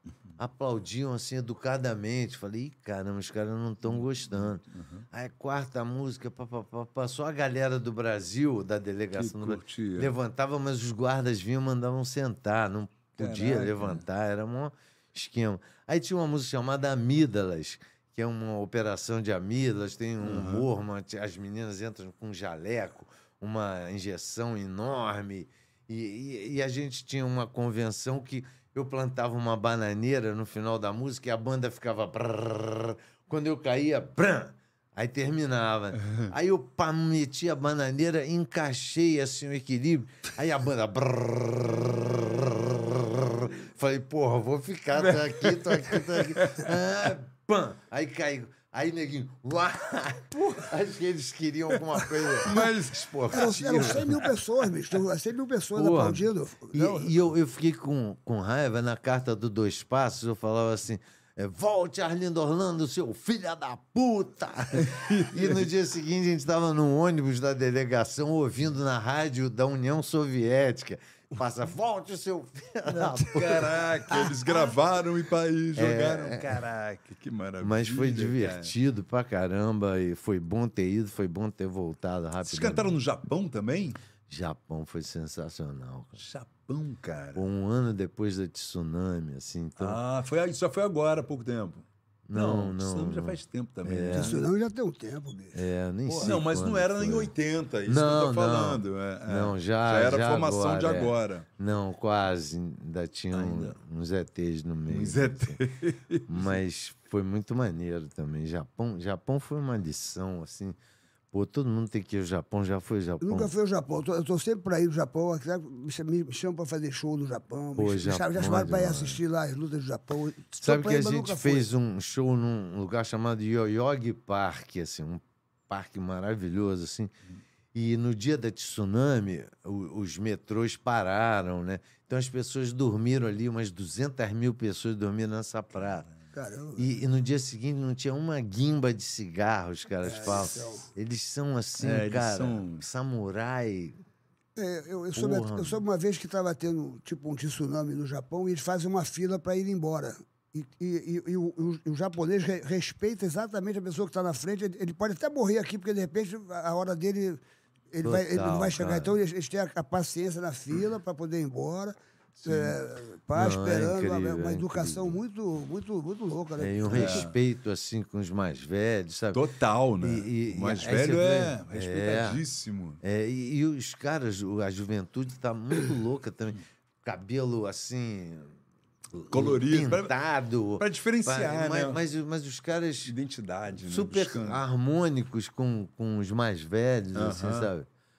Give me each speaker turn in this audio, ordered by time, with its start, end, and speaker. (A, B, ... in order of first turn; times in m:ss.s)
0:00.4-0:54.1 A
0:03.8-0:05.0 B
0:09.1-0:10.2 B
0:13.2-0:14.0 B
0:20.2-0:20.7 B
0:45.0-0:46.7 B
0:52.4-0:54.3 B
0:53.3-0:57.1 C
0:55.7-1:14.3 A
1:04.8-1:05.7 B
1:12.8-1:18.7 B
1:15.8-1:16.6 A
1:17.6-1:23.0 A
1:22.4-1:24.0 B
1:24.3-1:26.2 A
1:26.2-1:27.4 B
1:27.3-1:30.0 A
1:29.8-1:34.4 B
1:32.3-1:34.4 A
1:34.1-1:35.6 C
1:35.5-1:37.3 A
1:36.1-1:36.4 C
1:36.2-1:41.5 B
1:37.8-1:45.6 A
1:43.3-1:43.8 B
1:44.9-1:46.6 B
1:46.3-1:50.7 A
1:51.3-1:53.5 A
1:53.2-2:01.6 C
1:57.8-1:59.2 A
2:00.6-2:07.1 A
2:07.7-2:16.1 A
2:15.8-2:16.0 B
2:16.3-2:16.9 C
2:16.8-2:24.0 A
2:20.0-2:20.9 C
2:21.8-2:22.8 B
2:24.6-2:37.4 C
2:25.1-2:25.8 A
2:37.9-2:47.2 C
2:38.0-2:39.1 A
2:42.4-2:42.8 B
2:43.3-2:45.2 A
2:46.6-2:49.5 A
2:46.9-2:47.4 B
2:49.3-2:53.0 B
2:50.0-2:52.4 A
2:53.0-2:58.5 A
2:59.1-3:03.1 A
2:59.3-3:00.1 B
3:00.8-3:02.0 B
3:03.0-3:04.6 B
3:03.8-3:07.8 A
3:07.1-3:07.7 B